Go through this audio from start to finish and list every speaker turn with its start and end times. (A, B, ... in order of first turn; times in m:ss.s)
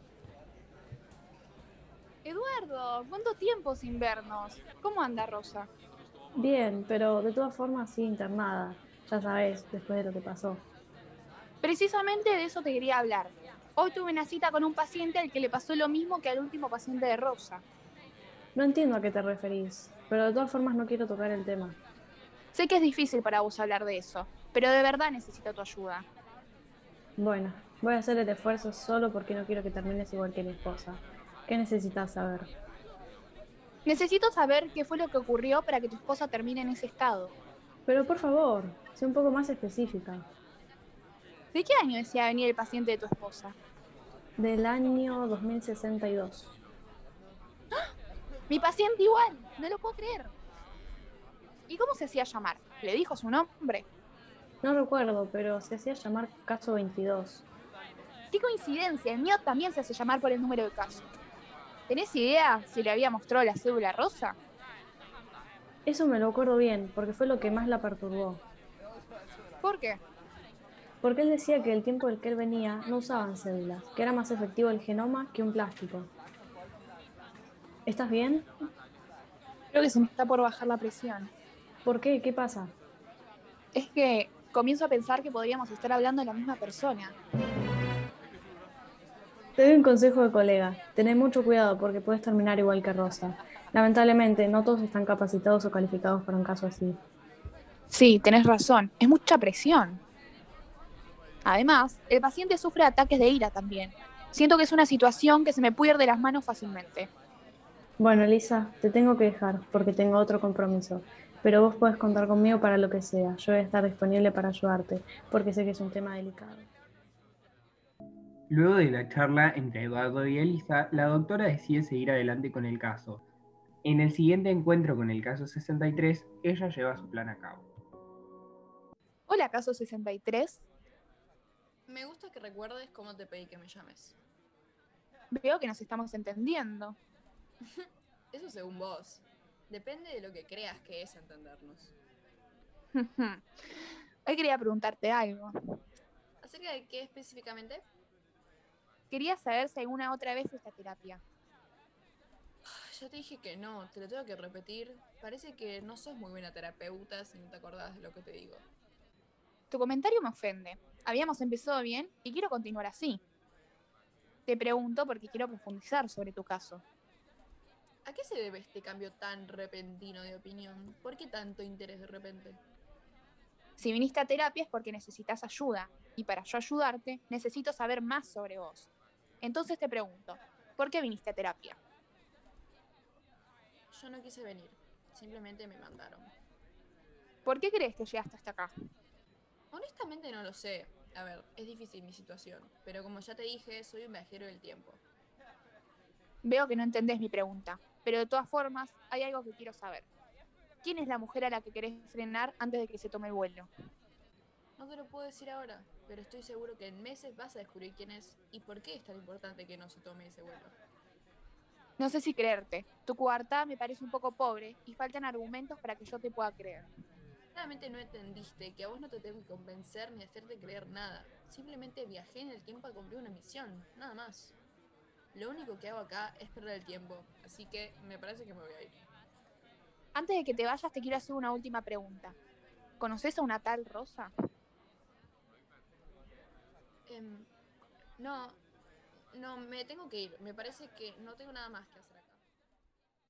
0:02.2-0:05.7 A
0:06.4-0:10.6 B
0:11.6-0:17.6 A
0:18.6-0:21.8 B
0:22.5-0:26.1 A
0:27.2-0:32.5 B
0:33.9-0:37.3 A
0:37.9-0:40.3 B
0:41.5-0:43.6 A
0:44.4-0:46.5 B
0:48.5-0:50.3 A
0:51.7-0:53.9 A
0:54.6-0:57.4 B
0:58.3-1:01.1 A
1:01.9-1:04.4 A
1:05.9-1:08.4 B
1:09.6-1:10.0 A
1:11.0-1:16.1 B
1:17.9-1:18.5 B
1:19.7-1:21.3 A
1:21.8-1:22.7 B
1:23.7-1:27.2 A
1:29.6-1:37.0 B
1:37.9-1:40.0 A
1:41.4-1:47.1 A
1:48.0-1:56.7 B
1:58.5-2:03.2 C
2:03.8-2:07.7 C
2:09.3-2:10.6 A
2:11.9-2:14.2 D
2:15.3-2:17.0 A
2:17.6-2:21.9 D
2:22.9-2:25.5 A
2:26.4-2:27.9 D
2:29.1-2:31.2 A
2:32.6-2:38.7 D
2:39.7-2:43.2 A
2:44.5-2:46.8 A
2:48.0-2:52.6 D
2:53.8-2:58.9 A
2:59.4-3:01.8 A
3:03.9-3:06.3 D
3:07.4-3:08.7 A
3:09.7-3:15.0 D
3:16.4-3:20.1 A
3:20.8-3:23.7 A
3:24.8-3:30.8 D
3:32.0-3:36.9 A
3:37.5-3:44.6 D
3:45.3-3:49.0 D
3:50.1-3:52.4 A
3:53.0-3:54.3 A
3:57.1-3:57.5 D
3:58.2-3:58.6 D
3:59.3-4:02.4 D